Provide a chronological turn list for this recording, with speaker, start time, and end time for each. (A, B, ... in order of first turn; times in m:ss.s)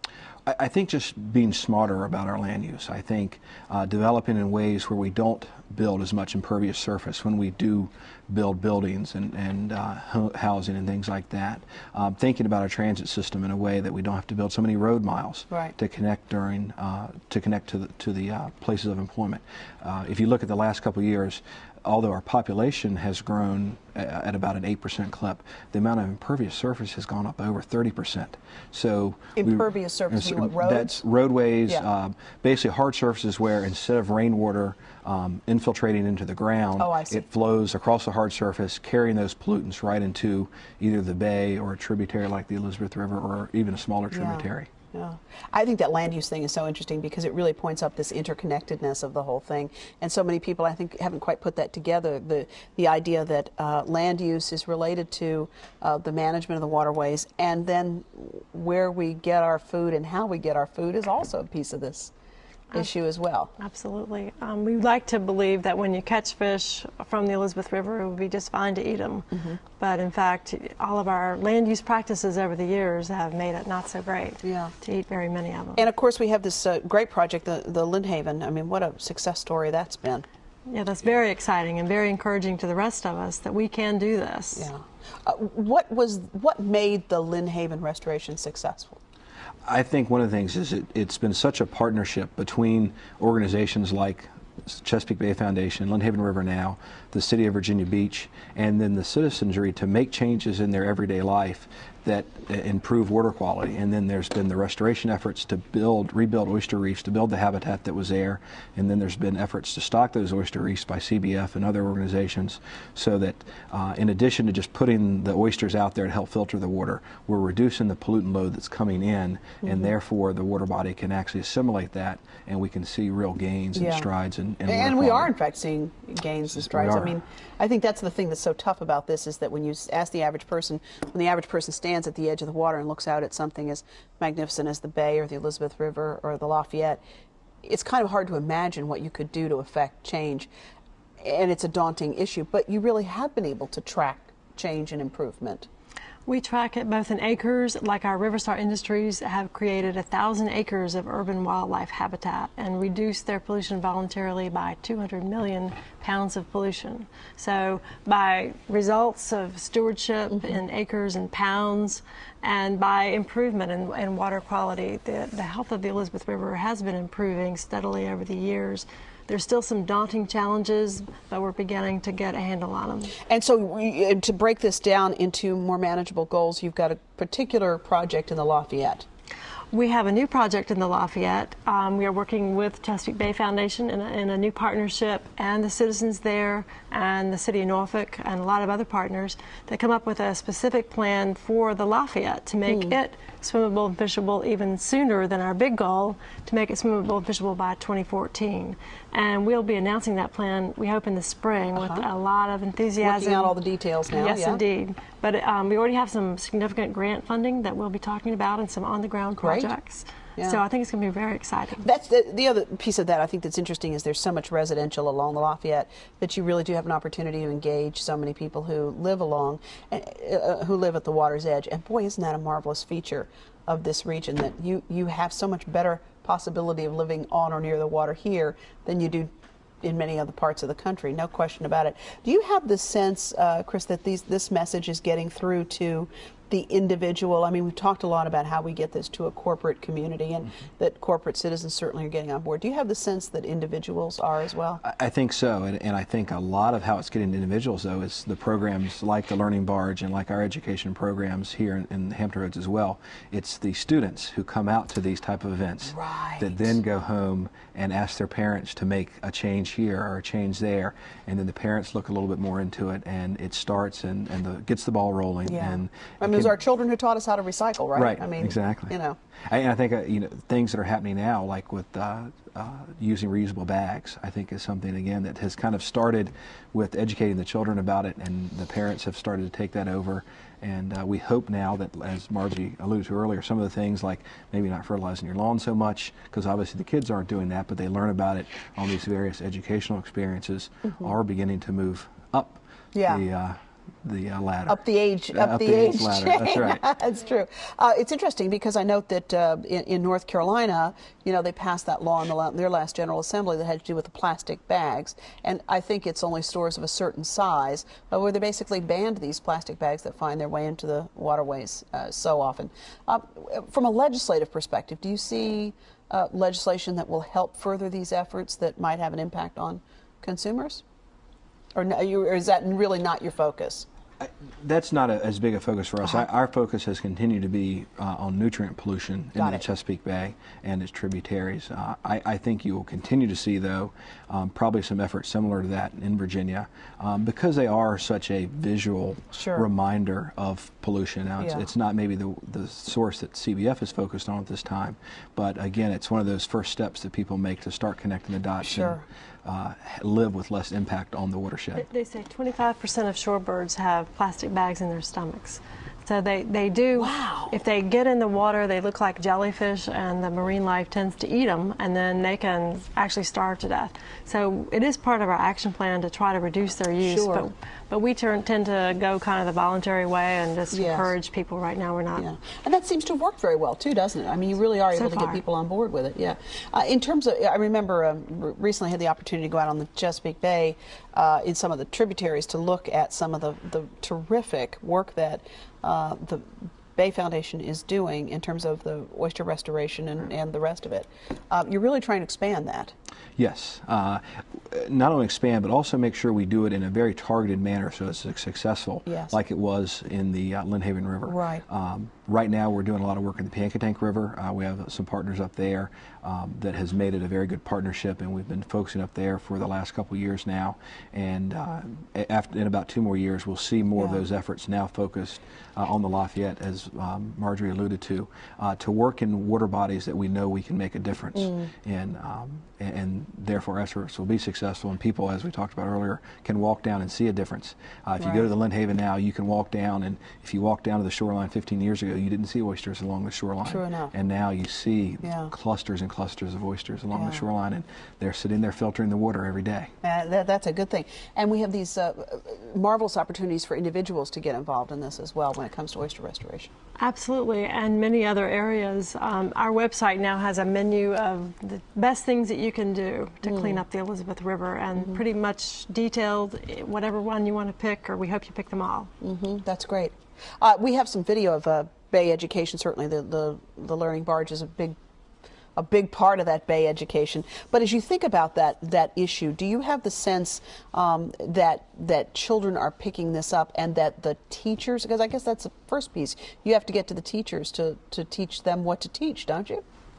0:00.4-0:44.7 A
0:29.4-0:31.0 B
0:36.8-0:37.2 B
0:44.1-1:02.1 B
1:02.7-1:03.5 B
1:03.6-1:15.8 C
1:09.3-1:09.6 B
1:14.4-1:14.7 B
1:15.8-1:20.2 B
1:20.7-1:24.7 C
1:24.5-1:29.0 B
1:29.6-2:05.3 A
1:59.6-1:59.9 B
2:03.7-2:04.0 B
2:04.7-2:17.0 B
2:06.5-2:07.1 A
2:17.6-2:20.5 B
2:21.2-2:25.7 B
2:26.3-2:53.1 C
2:40.3-2:40.6 B
2:53.3-2:59.0 B
2:59.7-3:23.5 C
3:12.7-3:12.9 B
3:21.8-3:22.0 B
3:23.0-3:24.6 B
3:24.1-3:31.8 C
3:29.4-3:29.7 B
3:31.8-3:49.3 B
3:49.8-4:04.8 B
4:04.8-4:26.6 A
4:15.9-4:16.7 B
4:25.4-4:29.2 B
4:27.9-4:56.8 A
4:50.9-4:51.1 B
4:52.9-4:53.2 B
4:54.7-5:20.8 B
5:21.7-5:23.9 B
5:24.2-5:51.8 A
5:29.4-5:29.6 B
5:39.3-5:39.7 B
5:41.4-5:41.6 B
5:48.6-5:49.0 B
5:51.7-6:12.2 C
5:56.9-5:57.5 B
6:07.0-6:07.5 B
6:10.7-6:11.1 B
6:12.2-6:32.9 B
6:14.9-6:15.4 C
6:33.4-7:19.9 A
6:39.1-6:39.4 B
6:41.2-6:41.6 B
6:54.0-6:54.2 B
7:01.4-7:01.7 B
7:08.2-7:08.5 B
7:13.6-7:14.1 B
7:15.2-7:15.5 B
7:17.1-7:17.4 B
7:20.0-7:26.7 B
7:27.0-7:39.1 C
7:33.4-7:33.8 B
7:39.2-7:45.0 B
7:45.8-7:59.8 B